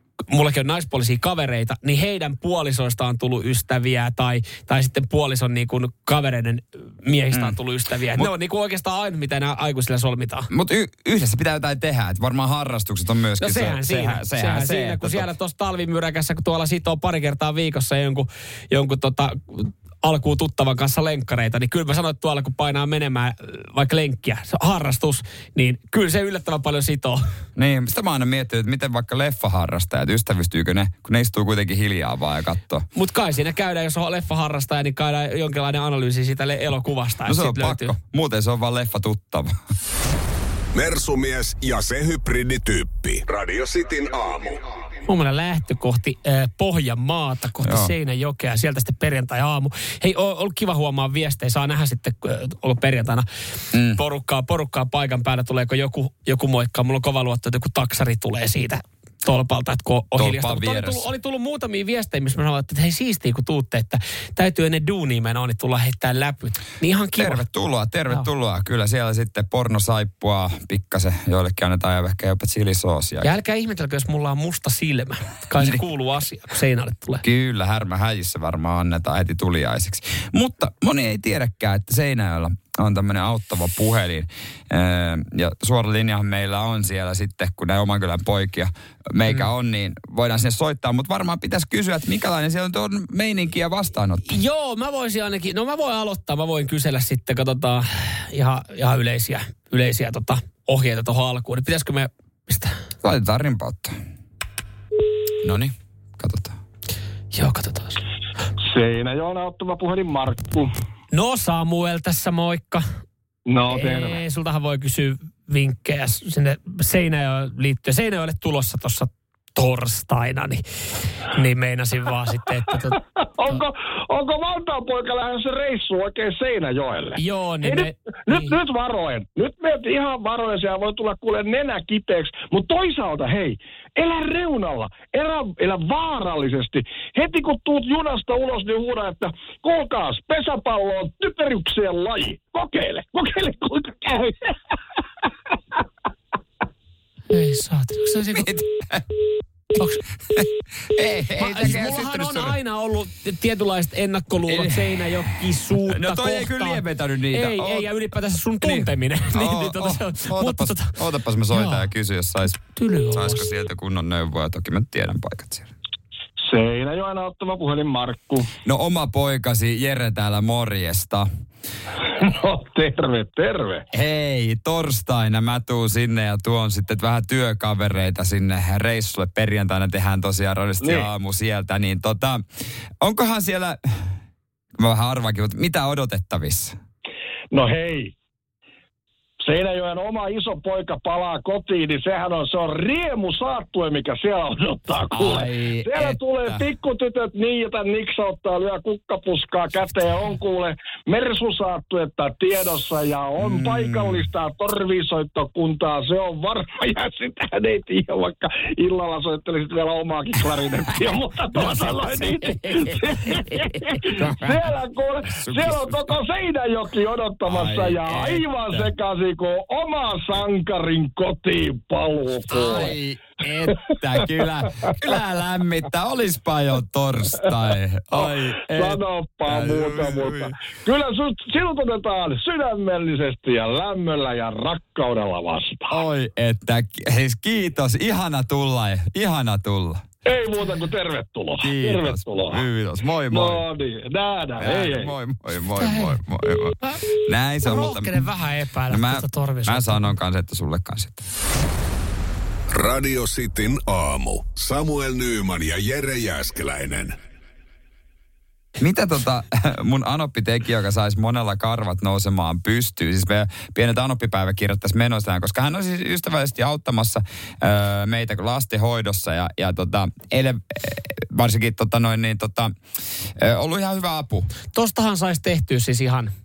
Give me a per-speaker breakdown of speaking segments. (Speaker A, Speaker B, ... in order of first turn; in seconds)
Speaker A: 0.3-10.5, 13.4-27.2, 32.9-37.9, 45.1-53.3, 53.9-67.4, 73.2-77.2, 94.3-102.8, 107.3-108.0, 111.1-112.9, 113.7-120.6, 121.2-123.6, 127.2-128.5, 147.3-148.5, 151.4-160.9, 161.5-161.9, 162.8-163.4, 245.8-246.1, 247.6-250.1, 274.7-276.3
Speaker B: 10.5-15.3, 27.6-32.9, 37.3-39.5, 47.6-47.9, 53.7-54.0, 60.1-61.1, 67.2-73.3, 77.2-94.3, 103.0-103.9, 105.4-106.6, 148.3-149.1, 150.3-152.6, 154.4-157.9, 158.6-165.7, 168.6-171.3, 173.9-182.4, 183.0-184.2, 184.8-186.8, 195.1-196.6, 203.4-204.2, 211.5-214.8, 215.3-216.0, 217.4-218.9, 222.5-230.6, 235.9-240.1, 241.6-243.6, 244.6-248.3, 248.9-251.3, 258.8-272.8, 273.4-274.5
Speaker C: 40.7-44.6, 252.7-257.1
Speaker D: 108.7-110.7, 113.5-114.2, 123.4-144.5, 166.5-168.5, 172.1-173.8, 180.8-181.1, 187.5-188.1, 189.4-223.0, 223.7-224.3, 228.1-236.0, 240.2-242.6, 243.3-245.1